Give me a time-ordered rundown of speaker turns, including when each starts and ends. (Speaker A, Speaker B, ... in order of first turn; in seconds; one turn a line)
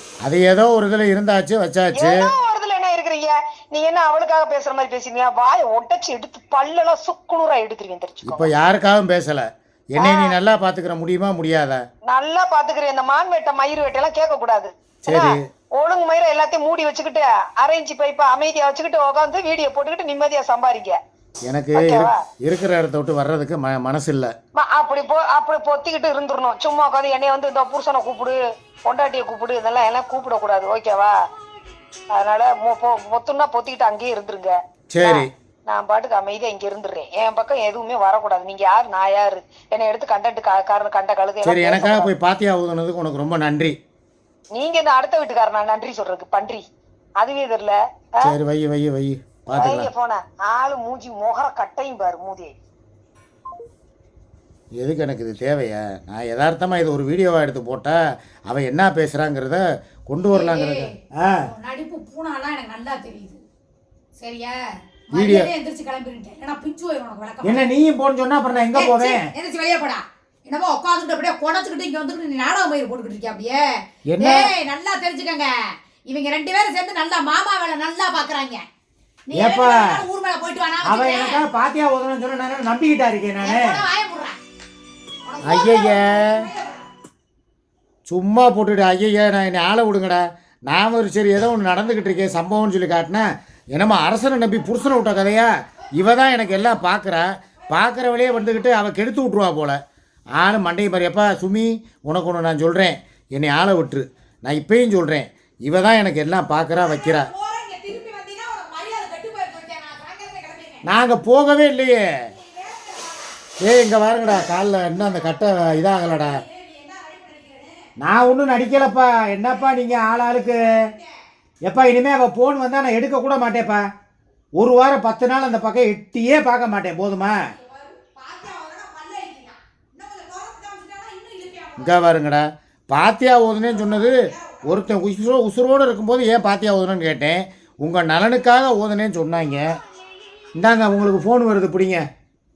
Speaker A: 0.2-2.2
Speaker B: 1.9-8.5
Speaker A: 8.2-11.8
Speaker B: 10.0-10.4
Speaker B: 12.1-20.9
Speaker A: 15.1-15.4
Speaker A: 21.4-24.3
Speaker B: 21.7-22.2
Speaker B: 24.6-31.1
Speaker B: 32.1-42.1
Speaker A: 34.9-35.3
Speaker A: 41.4-43.8
Speaker B: 44.5-46.6
Speaker B: 47.2-48.3
Speaker A: 48.2-49.9
Speaker B: 49.5-52.5
Speaker A: 54.8-61.5
Speaker C: 60.3-60.9
Speaker C: 61.5-63.4
Speaker C: 64.2-67.7
Speaker A: 65.1-65.5
Speaker A: 67.4-69.3
Speaker C: 68.7-78.7
Speaker A: 74.1-74.5
Speaker C: 79.3-81.4
Speaker A: 79.3-80.0
Speaker A: 80.8-83.8
Speaker C: 83.4-84.4
Speaker C: 85.2-86.9
Speaker A: 85.4-86.5
Speaker A: 88.0-99.8
Speaker A: 100.4-107.3
Speaker B: 107.0-107.4
Speaker C: 107.3-110.8
Speaker A: 110.8-112.0
Speaker B: 112.4-113.1
Speaker C: 112.8-113.0
Speaker A: 113.6-116.4
Speaker C: 115.7-117.8
Speaker A: 118.0-120.9
Speaker C: 120.0-121.0
Speaker A: 121.6-123.8
Speaker A: 124.6-127.3
Speaker C: 127.6-132.0
Speaker A: 131.8-139.6
Speaker C: 133.9-134.6
Speaker A: 140.5-142.0